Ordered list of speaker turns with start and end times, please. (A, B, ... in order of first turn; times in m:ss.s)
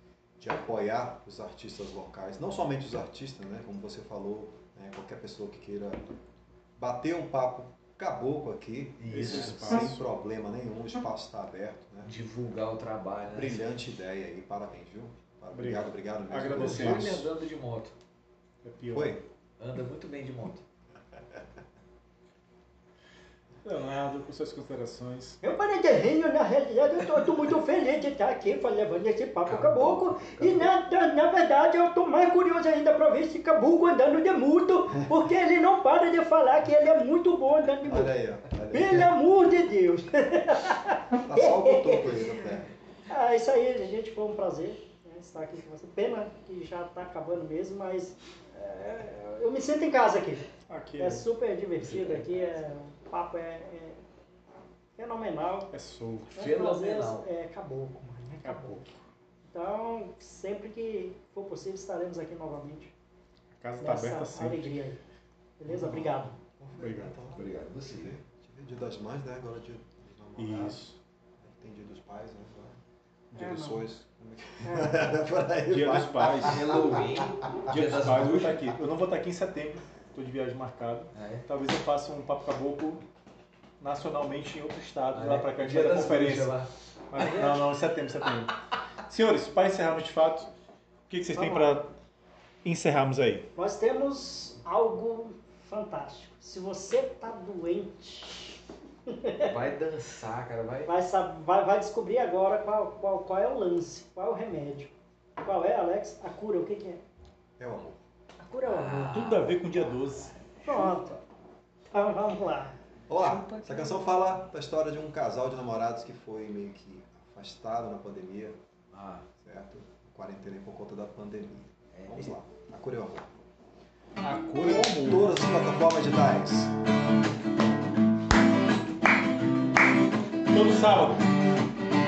0:00.4-0:06.0 A
0:06.8-0:12.1 A
0:09.0-0:09.9 B
0:09.1-0:10.0 C
0:12.1-0:13.8 B
0:13.3-0:17.3 A
0:15.5-0:17.2 C
0:16.5-0:18.0 B
0:18.6-0:19.2 C
0:18.9-0:19.2 A
0:19.6-0:20.6 B
0:23.6-0:25.4 C
0:25.4-0:38.1 D
0:29.4-0:30.7 B
0:37.8-0:39.1 A
0:38.7-0:42.2 D
0:41.2-0:42.7 A
0:43.1-0:50.5 D
0:50.7-0:51.3 C
0:51.0-0:54.0 D
0:51.8-0:52.6 B
0:55.0-0:55.7 D
0:55.7-0:56.5 C
0:56.4-0:58.8 D
0:56.4-0:57.3 B
0:58.4-0:59.0 C
0:59.5-1:02.9 D
1:03.6-1:04.7 C
1:03.8-1:05.0 D
1:05.6-1:06.3 D
1:05.7-1:10.8 A
1:06.8-1:07.2 C
1:07.3-1:08.2 B
1:10.4-1:11.0 C
1:11.4-1:12.8 A
1:13.3-1:13.6 C
1:13.4-1:13.8 D
1:13.4-1:17.2 A
1:14.6-1:15.0 D
1:15.7-1:16.6 C
1:16.4-1:18.6 B
1:17.7-1:23.0 C
1:21.1-1:21.5 B
1:23.8-1:26.6 C
1:25.1-1:26.7 B
1:27.1-1:28.6 C
1:27.2-1:27.6 D
1:29.1-1:30.5 C
1:31.1-1:31.9 C
1:31.4-1:31.8 D
1:32.6-1:33.5 C
1:33.6-1:38.6 D
1:39.1-1:39.5 D
1:39.4-1:40.9 B
1:40.9-1:47.0 D
1:47.6-1:48.0 A
1:48.4-1:49.3 D
1:48.6-1:51.2 B
1:49.1-1:50.3 C
1:50.6-1:51.1 D
1:51.9-1:52.8 D
1:53.1-1:58.6 A
1:53.2-1:54.0 B
1:58.9-1:59.3 B
1:59.4-2:03.3 A
2:01.9-2:02.3 B
2:04.2-2:05.4 C
2:04.6-2:06.7 A
2:10.5-2:11.3 C